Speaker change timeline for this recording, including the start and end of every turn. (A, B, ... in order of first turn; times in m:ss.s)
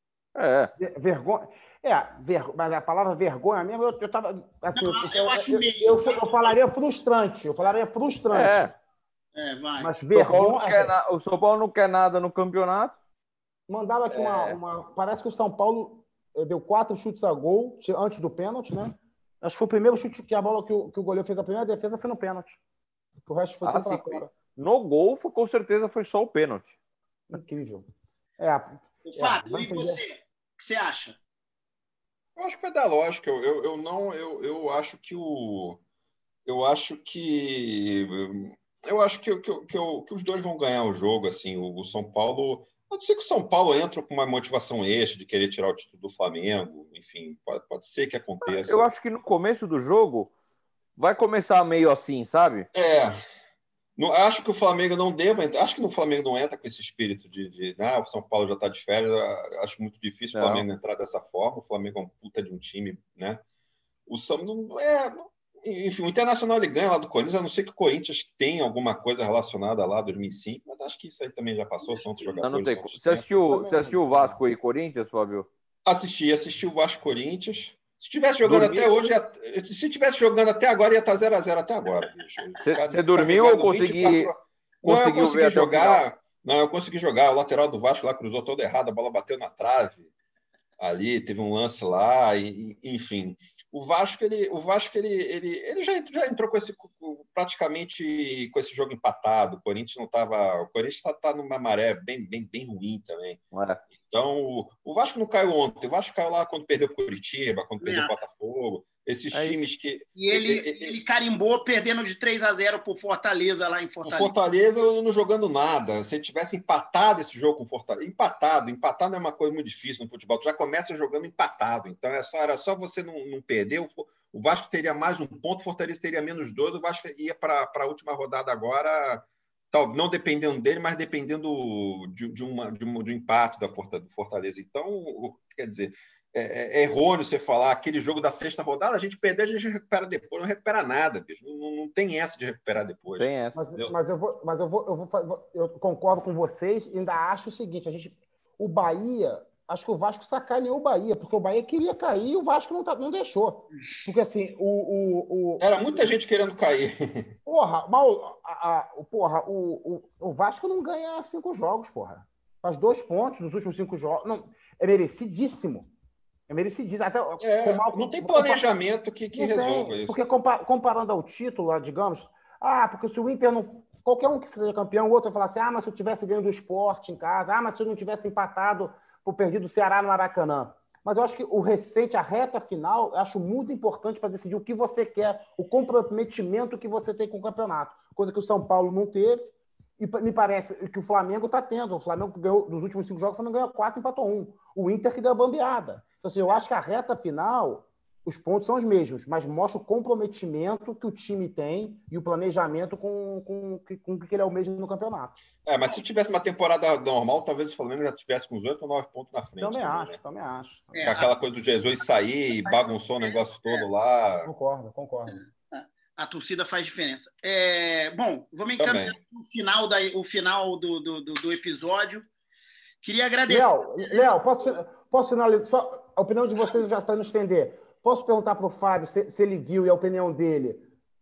0:00.3-0:00.7 A
0:00.8-0:08.7 B
0:04.7-0:06.5 C
0:08.3-0:08.7 A
0:09.3-0:09.9 C
0:09.8-0:10.9 B
0:10.1-0:13.0 A
0:13.7-0:22.6 B
0:14.1-0:14.6 A
0:23.2-0:24.3 B
0:23.6-0:26.7 A
0:27.3-0:27.8 B
0:28.4-0:30.0 B
0:29.0-0:31.2 C
0:32.4-0:35.8 D
0:36.4-0:48.9 D
0:48.5-0:50.3 A
0:51.0-0:52.7 A
0:52.7-0:53.2 D
0:54.0-1:03.4 D
1:00.3-1:00.6 A
1:04.1-1:13.0 D
1:12.4-1:15.5 A
1:13.1-1:14.4 B
1:15.8-1:30.1 D
1:18.4-1:18.9 A
1:22.6-1:24.3 A
1:24.8-1:26.0 A
1:30.8-1:43.4 D
1:43.5-1:43.8 A
1:44.0-1:51.0 D
1:47.8-1:48.2 C
1:49.3-1:49.6 A
1:50.2-1:54.3 C
1:54.0-2:23.9 D
2:23.2-2:23.6 A
2:23.5-2:36.1 B
2:35.6-2:37.3 D
2:37.4-2:45.9 B
2:46.5-2:48.8 B
2:47.4-2:50.1 D
2:49.4-3:25.4 B
3:25.6-3:30.2 D
3:29.6-3:31.1 B
3:30.9-3:31.3 C
3:31.0-3:34.5 D
3:32.5-3:33.9 C
3:34.4-3:35.4 B
3:35.3-3:42.2 C
3:38.8-3:39.2 D
3:43.0-3:44.4 C
3:43.5-3:50.8 B